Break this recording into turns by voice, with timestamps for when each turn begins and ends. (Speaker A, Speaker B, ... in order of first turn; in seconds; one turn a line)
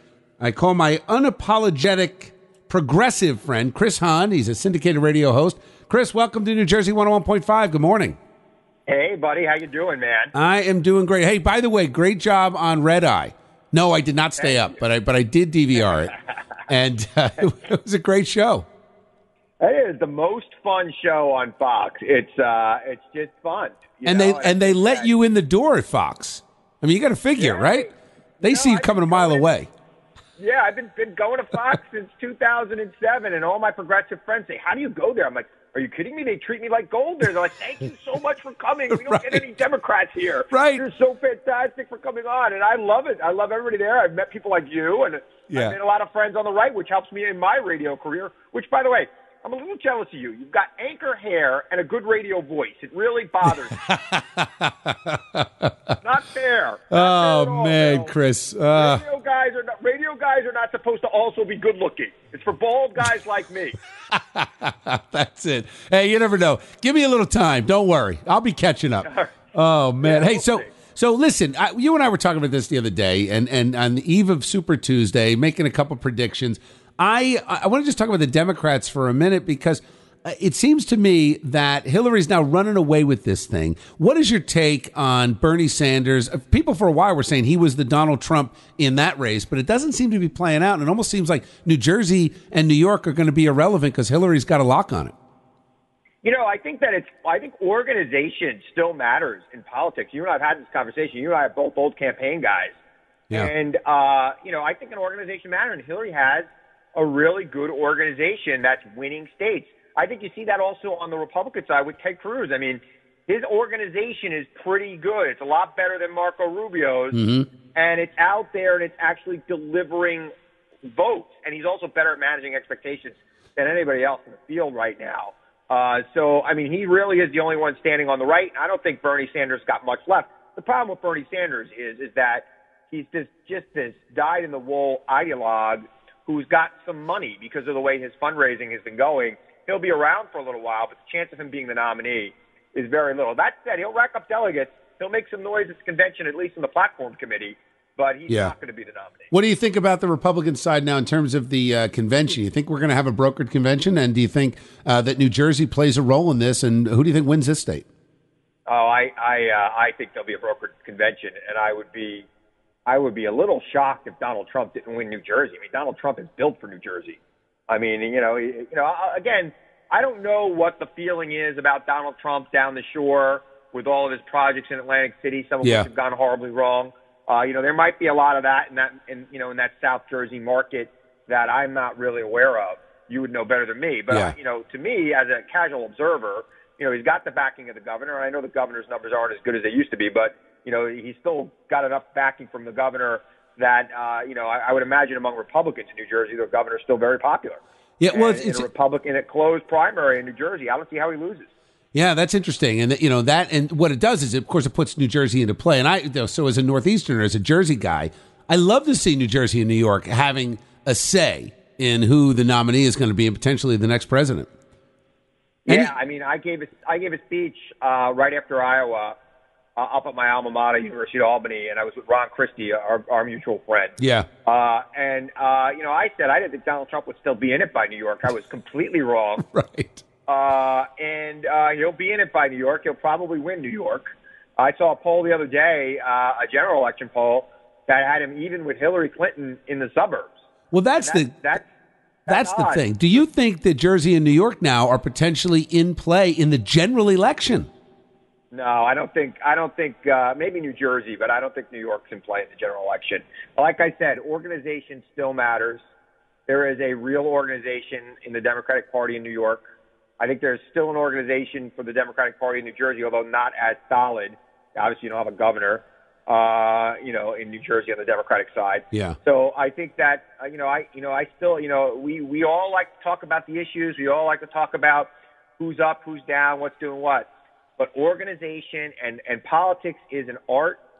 Speaker A: 0.4-8.2
Speaker B: 8.9-10.3
Speaker A: 10.3-16.2
Speaker B: 14.4-14.8
Speaker A: 16.7-18.7
Speaker B: 19.6-25.1
Speaker A: 24.1-29.7
Speaker B: 27.4-29.5
Speaker B: 30.4-53.8
Speaker A: 38.9-39.4
Speaker A: 40.5-40.8
Speaker A: 45.5-45.7
Speaker A: 53.9-56.0
Speaker B: 56.0-58.1
Speaker A: 56.9-59.0
Speaker B: 58.7-63.8
Speaker A: 64.1-95.1
Speaker B: 69.0-69.3
Speaker B: 70.0-70.7
Speaker B: 96.2-102.8
Speaker B: 103.3-117.2
Speaker A: 117.1-117.5
Speaker B: 117.7-120.3
Speaker B: 120.9-149.3
Speaker A: 149.3-157.9
Speaker B: 158.7-162.3
Speaker B: 162.9-201.5
Speaker A: 175.6-175.9
Speaker A: 198.0-198.7
Speaker A: 201.9-214.5
Speaker B: 215.7-219.2
Speaker B: 219.8-229.4
Speaker A: 224.0-224.3
Speaker A: 229.5-230.0
Speaker B: 230.3-240.3
Speaker A: 240.7-241.4
Speaker B: 241.0-241.7
Speaker B: 242.3-242.9
Speaker A: 242.3-247.7
Speaker B: 248.5-255.8
Speaker B: 256.5-259.6
Speaker B: 260.2-280.8